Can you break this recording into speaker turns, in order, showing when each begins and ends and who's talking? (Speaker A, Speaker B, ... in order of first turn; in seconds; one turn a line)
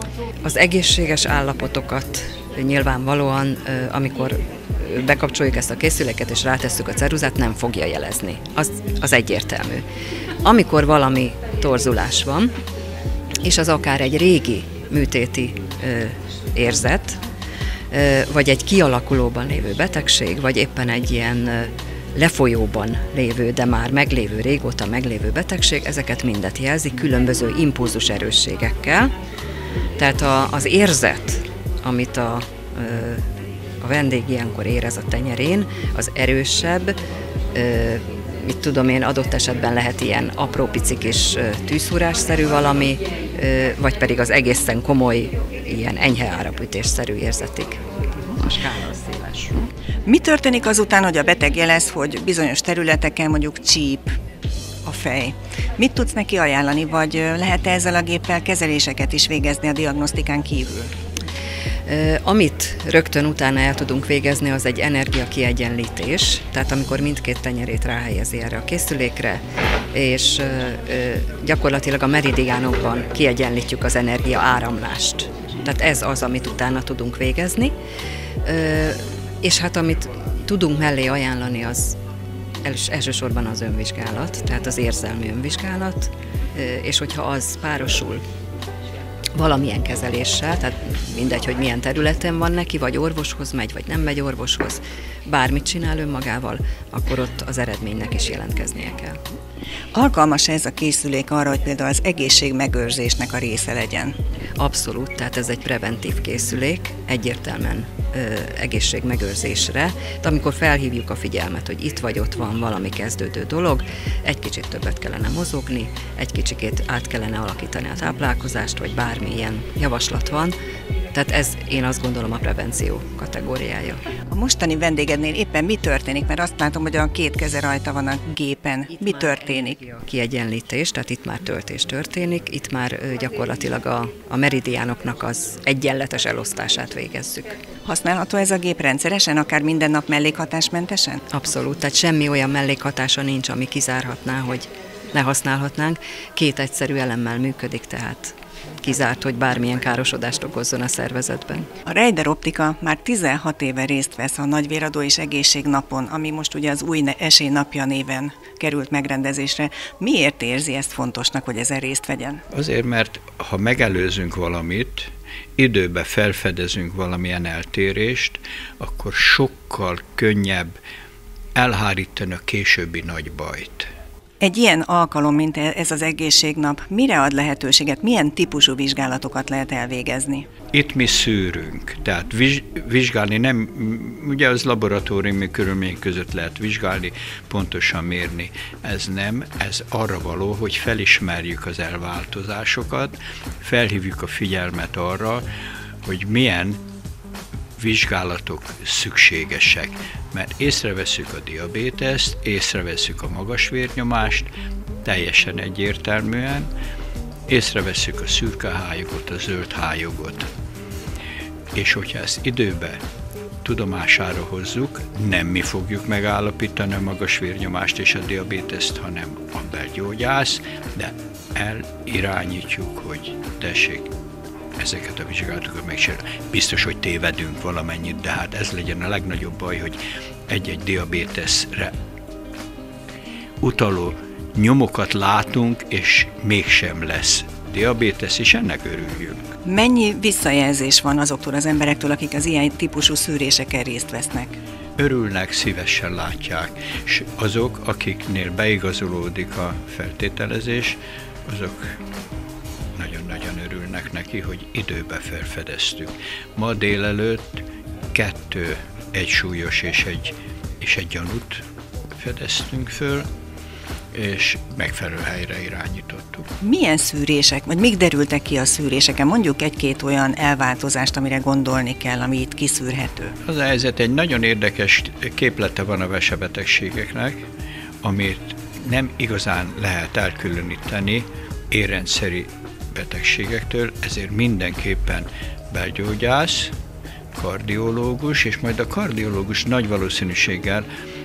Speaker A: 0.4-9.8
Speaker A: 10.4-12.5
Speaker A: 13.4-17.2
Speaker A: 17.9-29.1
Speaker A: 30.0-33.2
Speaker A: 33.8-37.0
Speaker A: 37.5-49.5
Speaker B: 50.1-54.1
Speaker B: 54.9-60.9
Speaker A: 61.9-69.4
Speaker A: 69.9-77.7
Speaker A: 78.5-82.0
Speaker A: 82.6-88.2
Speaker A: 89.4-99.2
Speaker B: 99.9-104.1
Speaker A: 104.6-120.5
Speaker A: 121.1-124.0
Speaker B: 124.3-129.8
Speaker A: 128.9-137.6
Speaker B: 137.9-141.2
Speaker A: 141.3-151.7
Speaker B: 151.9-162.4
Speaker C: 162.5-170.8
Speaker C: 171.6-173.9
Speaker B: 174.4-180.5
Speaker C: 180.7-195.5
Speaker C: 196.0-196.8
Speaker C: 197.8-204.5
Speaker C: 205.1-206.7
Speaker C: 207.5-210.5
Speaker C: 211.7-213.0
Speaker C: 213.6-224.1
Speaker C: 224.8-231.9
Speaker C: 233.6-239.6
Speaker B: 239.7-244.6
Speaker C: 245.0-251.9
Speaker C: 253.0-261.6
Speaker C: 262.1-263.3
Speaker C: 264.1-266.5
Speaker B: 266.6-273.4
Speaker C: 273.4-277.4
Speaker C: 278.0-286.7
Speaker C: 287.4-290.9